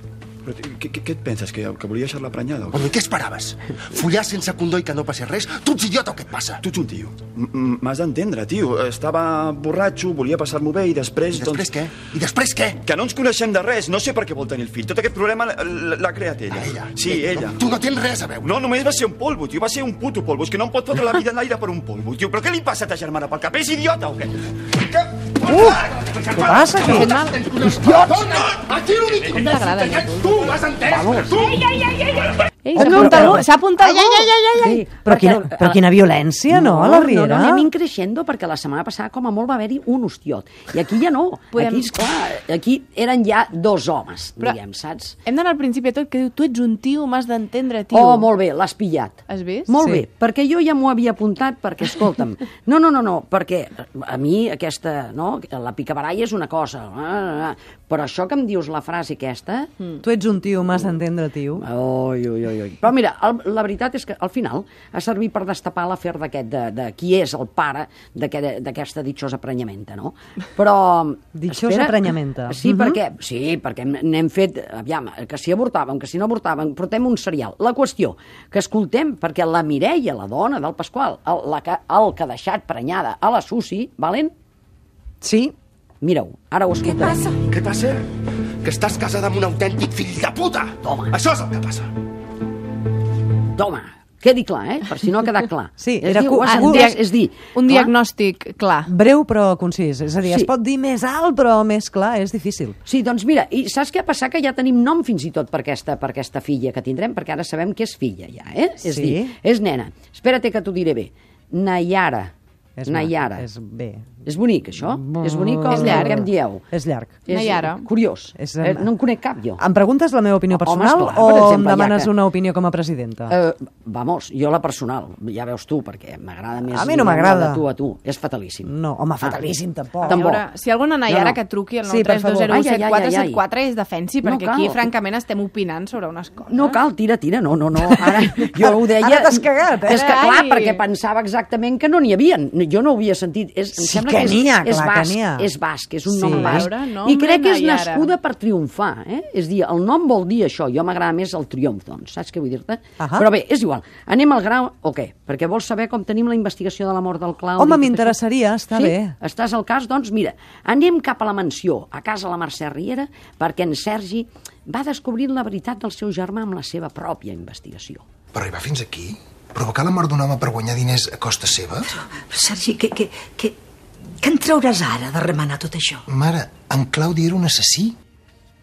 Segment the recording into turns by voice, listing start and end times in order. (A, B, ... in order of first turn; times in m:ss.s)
0:00.4-0:02.9 A
0:02.7-0:06.6 B
0:06.6-0:11.7 A
0:11.3-0:12.8 B
0:12.8-0:17.6 A
0:16.5-0:18.7 B
0:18.4-0:24.3 A
0:25.5-0:25.8 C
0:25.5-0:31.5 B
0:26.3-0:27.2 C
0:26.9-0:27.4 D
0:27.6-0:28.2 E
0:29.3-0:30.5 D
0:30.8-0:31.5 E
0:31.6-0:32.0 D
0:32.7-0:34.8 D
0:32.7-0:35.9 E
0:32.8-0:33.5 C
0:34.8-0:37.7 C
0:36.5-0:45.2 E
0:41.5-0:41.9 D
0:45.3-0:48.3 D
0:47.9-0:59.7 E
0:49.3-0:49.7 D
1:00.0-1:01.6 C
1:01.6-1:24.3 E
1:11.4-1:12.9 C
1:25.2-1:25.5 C
1:26.0-1:27.2 E
1:27.0-1:27.3 D
1:27.5-1:28.0 B
1:28.6-1:31.9 B
1:30.8-1:31.2 E
1:33.6-1:37.9 E
1:35.8-1:36.9 C
1:36.4-1:37.0 D
1:37.5-1:38.9 D
1:38.9-1:42.8 C
1:40.2-1:40.5 E
1:42.8-1:52.3 E
1:48.8-1:49.3 C
1:52.8-1:54.1 C
1:52.9-1:53.5 E
1:54.2-1:56.6 E
1:55.0-1:57.2 C
1:55.7-1:56.2 D
1:57.3-1:59.6 E
1:57.3-1:57.9 D
1:58.4-1:58.9 C
1:59.6-2:03.4 C
2:00.5-2:02.1 E
2:03.3-2:08.7 E
2:06.7-2:07.6 C
2:08.6-2:10.4 C
2:10.0-2:16.8 D
2:11.1-2:11.4 E
2:11.8-2:12.5 C
2:12.5-2:13.4 E
2:14.2-2:14.8 E
2:16.5-2:38.2 E
2:17.8-2:20.0 C
2:19.9-2:20.8 D
2:23.8-2:25.5 C
2:26.1-2:26.7 C
2:26.2-2:28.1 D
2:33.0-2:33.3 C
2:37.6-2:39.2 C
2:38.7-2:48.0 E
2:48.3-2:51.9 F
2:52.0-2:53.6 G
2:54.2-2:56.0 G
2:56.1-2:58.0 F